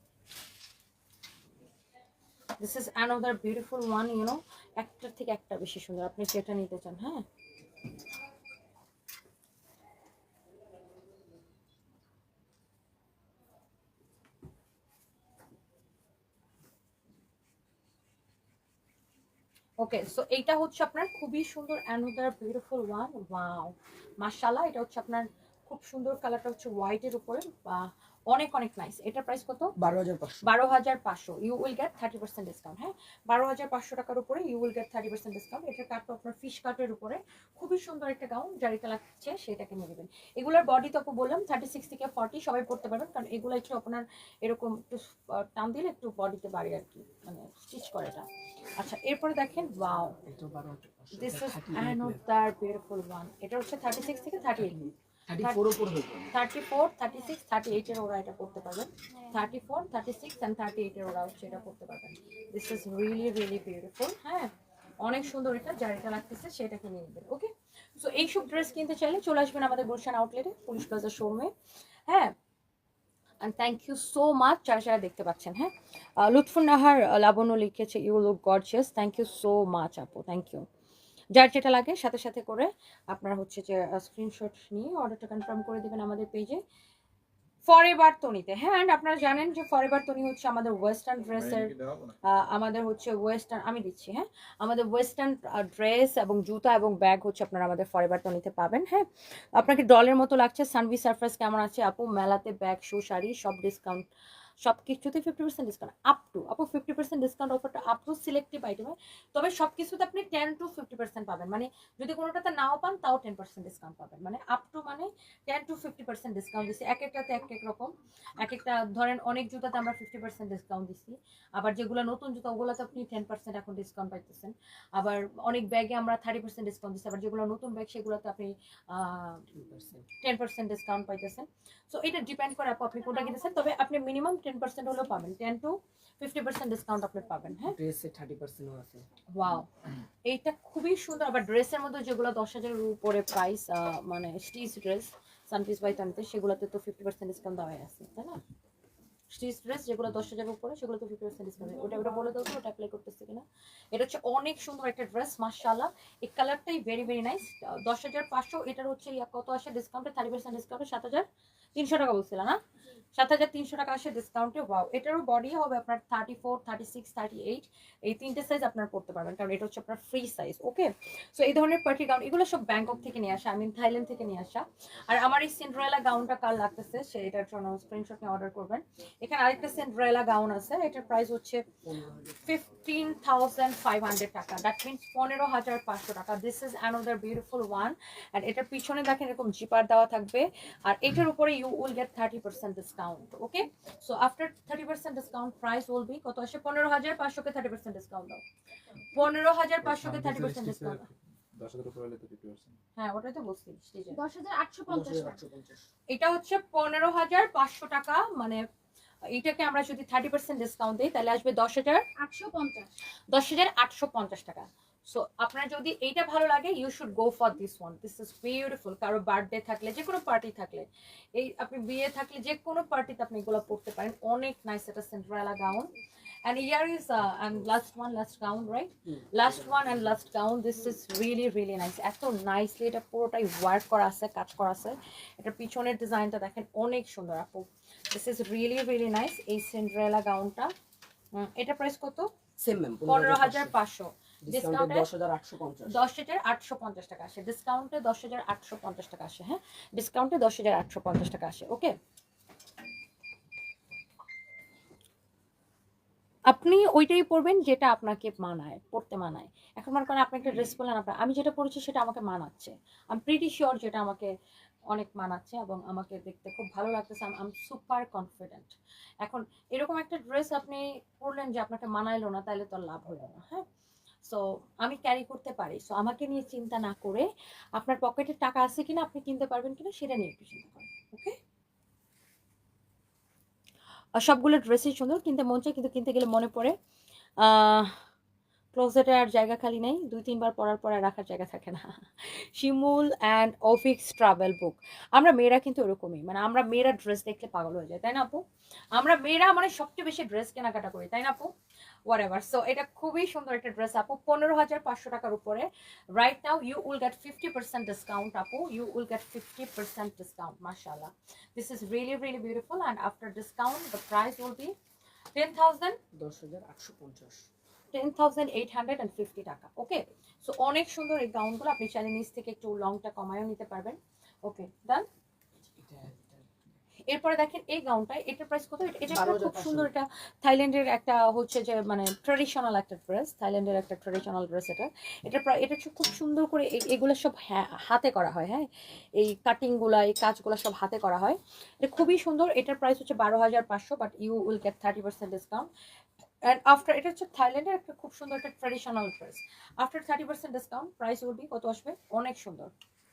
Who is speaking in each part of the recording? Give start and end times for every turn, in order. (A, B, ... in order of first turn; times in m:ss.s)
0:02.6-0:07.2 A
0:19.8-0:29.7 A
0:29.8-0:30.5 B
0:30.4-0:50.2 A
0:50.2-0:52.2 B
0:51.1-0:54.8 A
0:54.6-0:56.3 B
0:55.4-0:55.6 A
0:56.3-1:11.5 A
1:12.1-1:12.3 A
1:13.4-1:20.6 A
1:21.3-1:26.6 A
1:27.6-1:31.7 A
1:31.4-1:32.2 C
1:32.2-1:44.1 A
1:44.6-2:09.4 A
2:09.5-2:10.1 B
2:10.2-2:17.8 A
2:17.7-2:19.1 B
2:19.3-2:19.7 A
2:20.3-2:28.4 A
2:29.3-2:41.2 A
2:41.8-2:42.6 A
2:43.2-3:01.6 A
3:01.8-3:02.5 B
3:02.4-3:18.4 A
3:19.1-3:21.1 A
3:19.8-3:22.8 C
3:23.0-3:24.2 A
3:24.1-3:25.4 D
3:24.9-3:25.9 B
3:26.1-3:28.6 A
3:29.3-3:32.1 A
3:32.2-3:32.9 D
3:33.3-3:45.9 A
3:46.4-4:00.7 A
3:49.1-3:50.1 B
4:01.4-4:02.3 A
4:02.6-4:03.8 B
4:03.1-4:05.1 A
4:04.4-4:06.0 B
4:05.9-4:11.9 A
4:16.5-4:24.3 A
4:24.9-4:28.7 A
4:29.2-4:33.6 A
4:34.3-4:41.4 A
4:44.2-4:46.8 A
4:47.4-4:47.9 A
4:48.7-4:58.4 A
4:58.9-5:01.5 A
5:02.1-5:14.8 A
5:15.3-5:16.0 A
5:16.1-5:17.5 B
5:17.9-5:25.1 A
5:25.8-5:26.5 B
5:27.1-5:45.7 A
5:29.1-5:29.9 B
5:46.4-5:52.7 A